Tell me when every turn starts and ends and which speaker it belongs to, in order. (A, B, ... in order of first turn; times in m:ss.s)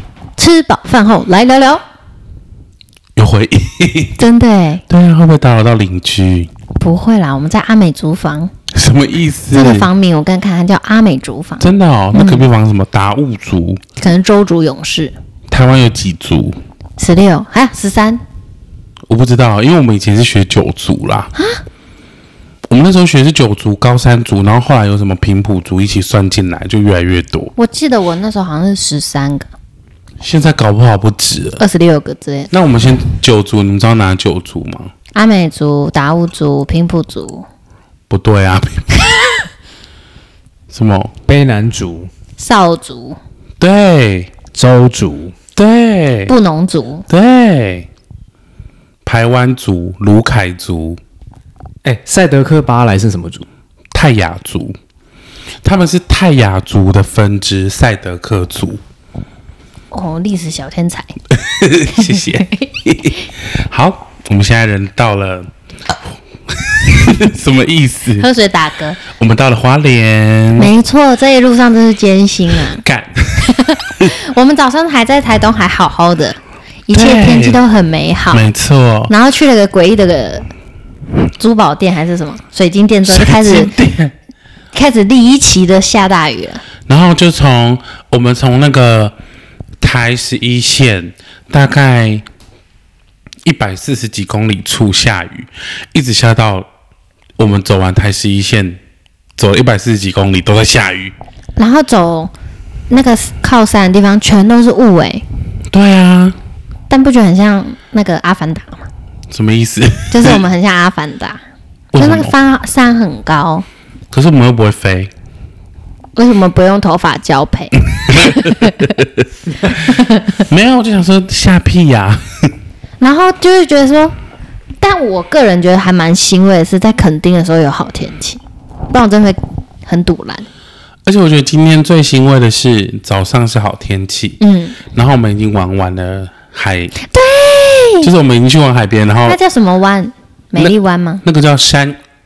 0:00.4-0:01.8 A
0:03.2-0:04.2 B
0:04.2-0:04.8 A
0:04.9-0:06.5 B
0:06.8-0:08.5 A
0:08.7-0:09.9 B
0:09.5-0:12.4 A
0:11.6-0:13.8 B
0:14.0-0:15.2 A
0:15.5-0:16.6 B
0:17.0-0:18.2 A
0:19.1-0:21.3 B
0:22.7-0:27.5 B
0:27.6-0:29.5 A
0:30.2-0:31.6 B
0:31.6-0:32.5 A
0:32.5-0:34.9 B
0:35.2-0:37.5 A
0:38.1-0:39.0 B
0:40.7-0:41.1 B
0:41.3-0:42.1 C
0:42.4-0:43.2 A
0:43.6-0:44.3 B
0:44.6-0:45.4 C
0:45.6-0:46.3 B
0:46.3-0:47.0 A
0:47.1-0:47.9 B
0:49.0-0:51.0 B
0:51.8-0:53.5 C
0:53.9-0:54.8 B
0:55.6-0:58.8 B
0:59.9-1:01.1 A
1:01.4-1:05.5 B
1:02.0-1:02.6 A
1:06.5-1:08.3 B
1:08.2-1:09.0 A
1:09.1-1:10.7 B
1:10.6-1:12.8 A
1:12.7-1:14.1 B
1:13.4-1:18.4 A
1:16.9-1:17.6 B
1:18.3-1:19.1 B
1:19.1-1:20.5 A
1:21.4-1:23.7 A
1:23.1-1:24.1 B
1:24.7-1:26.6 A
1:26.9-1:29.1 B
1:29.8-1:32.2 B
1:33.4-1:36.7 B
1:37.4-1:38.8 B
1:39.4-1:41.1 B
1:41.6-1:42.3 A
1:42.9-1:45.2 A
1:45.7-1:46.4 B
1:46.9-1:48.9 A
1:49.3-1:50.4 B
1:50.1-1:51.4 A
1:51.9-1:52.3 B
1:52.0-1:53.6 A
1:54.1-1:55.1 B
1:56.2-1:59.0 A
1:59.7-2:00.4 A
2:00.5-2:02.5 B
2:03.0-2:04.2 A
2:04.8-2:10.5 A
2:11.1-2:14.4 B
2:14.4-2:14.8 A
2:14.9-2:17.0 B
2:17.0-2:18.1 A
2:18.0-2:19.4 B
2:19.3-2:21.2 A
2:21.2-2:22.0 B